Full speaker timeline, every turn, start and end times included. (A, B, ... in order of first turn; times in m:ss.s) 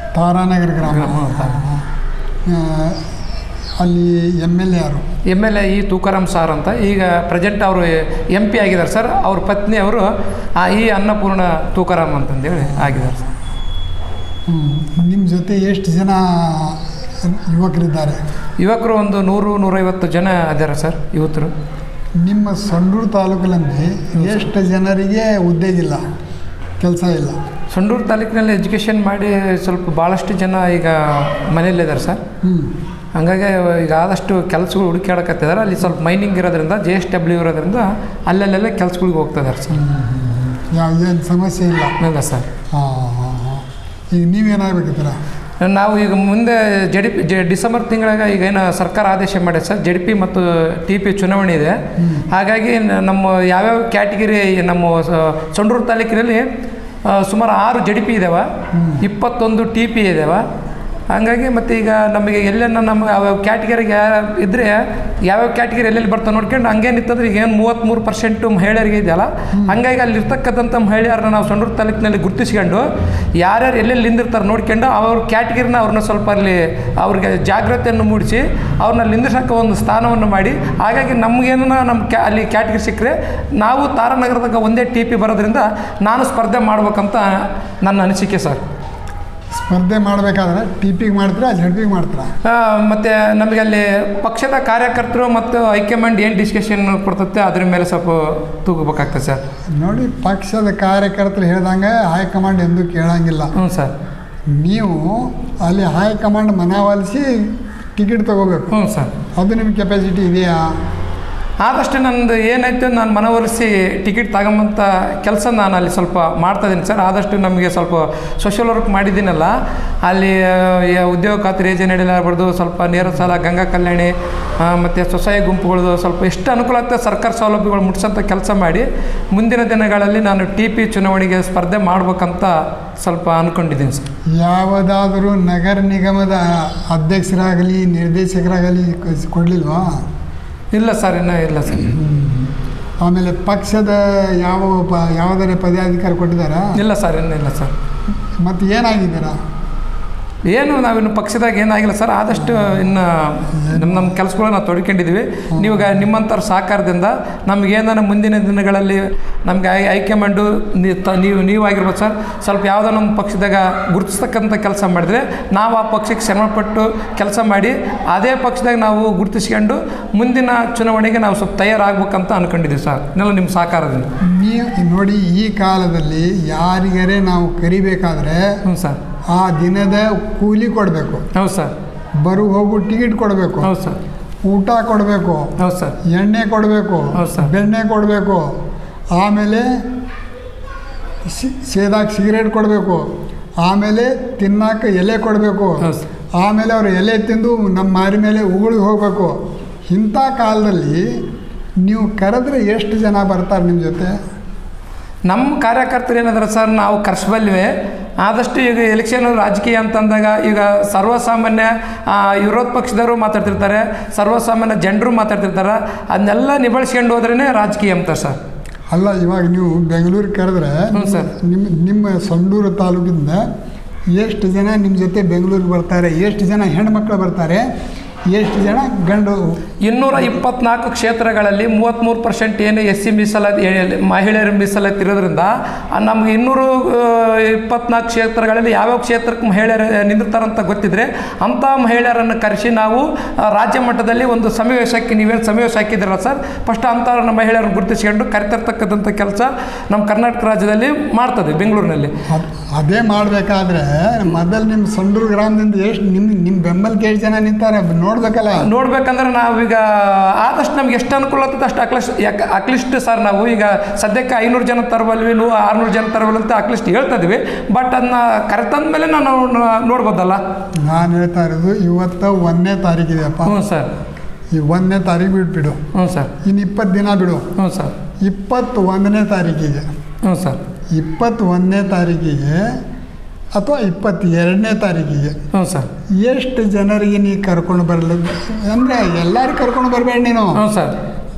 0:00.2-0:01.9 A
0:00.8-0:01.6 B
0:02.5-0:03.1 A
0:03.8-0:05.0 A
0:05.3-0:13.2 B
0:12.7-0:13.1 A
0:14.5-0:18.2 A
0:18.6-0:21.5 B
0:22.2-0:26.0 A
0:26.8-0:27.4 A
0:27.7-0:32.2 B
0:32.4-0:32.8 A
0:33.2-0:39.8 B
0:39.7-0:42.0 A
0:42.0-0:42.5 B
0:42.7-0:45.2 A
0:45.6-0:51.8 B
0:52.0-0:52.3 A
0:52.3-0:56.5 B
0:57.0-0:58.5 B
0:58.7-0:59.0 A
0:59.0-1:00.4 B
1:01.1-1:12.8 B
1:09.5-1:09.8 A
1:13.4-1:28.6 B
1:29.5-1:32.3 A
1:32.4-1:39.4 B
1:39.7-1:43.5 A
1:43.6-1:43.9 B
1:44.5-1:48.7 A
1:48.7-1:49.1 B
1:49.4-1:50.7 A
1:51.6-1:59.5 B
2:00.0-2:14.1 B
2:14.4-2:20.0 A
2:20.7-2:21.9 B
2:21.7-2:26.8 A
2:26.8-2:27.7 B
2:28.4-2:29.4 A
2:30.5-2:54.1 B
2:32.4-2:33.0 A
2:33.5-2:34.1 A
2:35.5-2:36.0 A
2:54.2-2:58.5 A
2:58.7-2:59.0 B
2:59.3-3:01.2 A
3:01.4-3:01.7 B
3:02.2-3:03.7 A
3:03.6-3:04.0 B
3:04.5-3:05.5 A
3:05.6-3:06.0 B
3:06.0-3:08.5 A
3:07.2-3:07.5 B
3:09.2-3:09.7 A
3:11.3-3:13.1 A
3:13.6-3:15.9 A
3:16.4-3:19.4 A
3:19.9-3:21.1 A
3:21.8-3:24.1 A
3:25.3-3:38.4 B
3:38.9-3:43.4 A
3:40.9-3:41.3 B
3:44.2-3:47.6 A
3:48.3-3:49.6 A
3:49.8-4:12.1 B
4:12.3-4:18.7 A
4:18.6-4:30.4 B
4:30.8-4:33.6 A
4:33.4-4:33.9 B
4:34.5-4:35.8 A
4:35.9-4:36.3 B
4:36.4-4:37.5 A
4:37.6-4:37.9 B
4:38.2-4:39.9 A
4:40.2-4:40.6 B
4:40.9-4:42.8 A
4:43.6-4:45.4 A
4:45.5-4:45.9 B
4:46.2-4:50.6 A
4:50.6-4:51.0 B